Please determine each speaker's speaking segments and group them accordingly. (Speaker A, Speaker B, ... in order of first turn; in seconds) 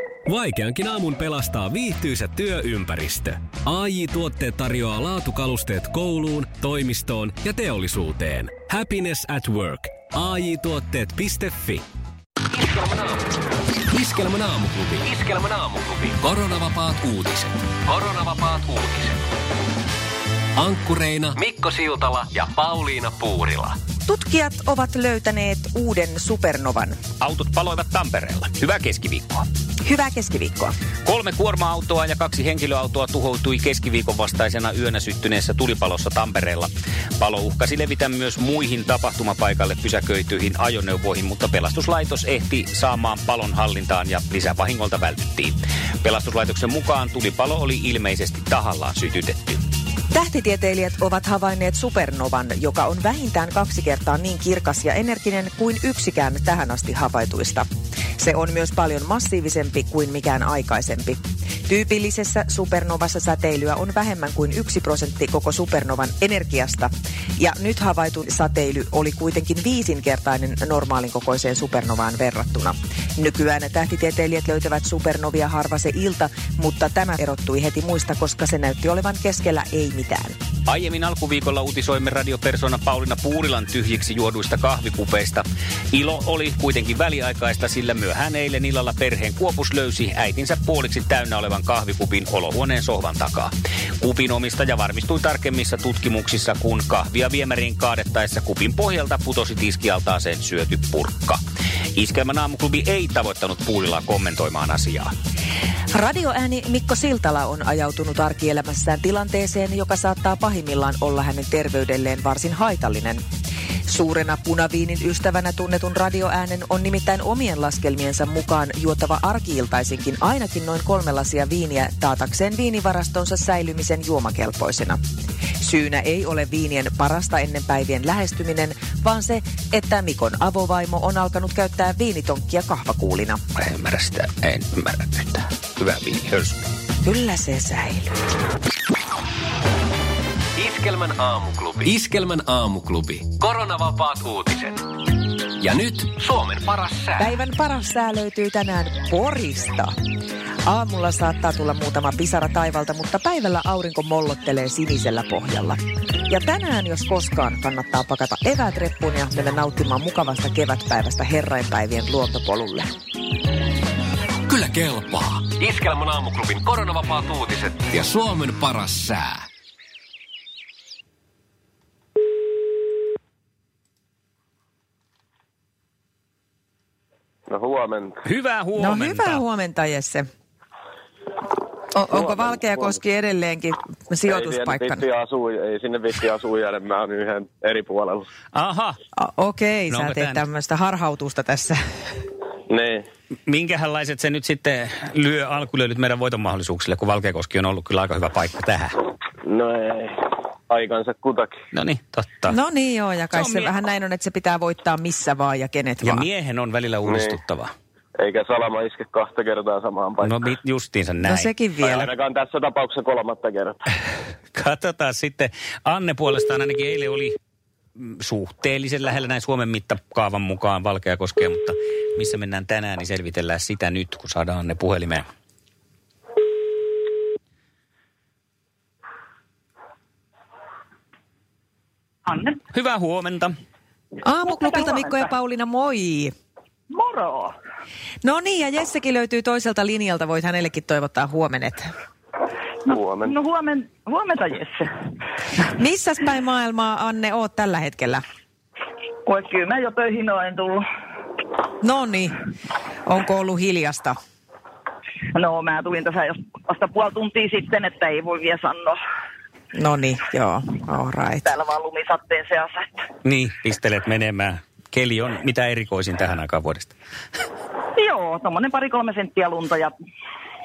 Speaker A: 0.2-11.8, 12.5-13.4, 13.9-19.2, 20.6-23.8, 140.6-144.8, 145.6-147.3, 164.5-169.4
Speaker B: 24.1-27.0, 29.8-30.7, 50.1-57.7, 58.2-80.3, 105.9-113.2, 113.9-125.0, 125.6-133.4, 137.0-138.1, 147.2-149.9, 150.7-162.9, 178.8-180.3, 181.9-185.0, 189.2-191.8, 202.5-206.2, 211.2-212.1, 234.2-236.3, 238.2-241.9, 245.7-248.2, 251.8-252.4, 253.1-254.2, 259.7-261.5
Speaker C: 27.2-29.4, 31.1-49.6, 80.7-101.4, 101.9-105.1, 133.6-136.7, 178.2-179.4, 188.5-189.0, 189.9-190.4, 193.5-199.0, 201.7-202.6, 203.3-203.7, 206.0-207.7, 210.2-211.5, 214.5-217.3, 218.0-225.2, 232.7-233.5, 263.2-266.9
Speaker D: 177.5-178.2, 182.1-182.9, 184.3-188.3, 192.7-193.1, 199.4-201.5, 207.0-207.4, 208.2-210.5, 211.8-213.8, 242.9-243.3
Speaker E: 232.3-232.6, 234.4-235.3, 236.9-237.5, 242.9-244.9, 249.3-250.8, 255.3-259.0, 261.4-263.0, 267.9-269.9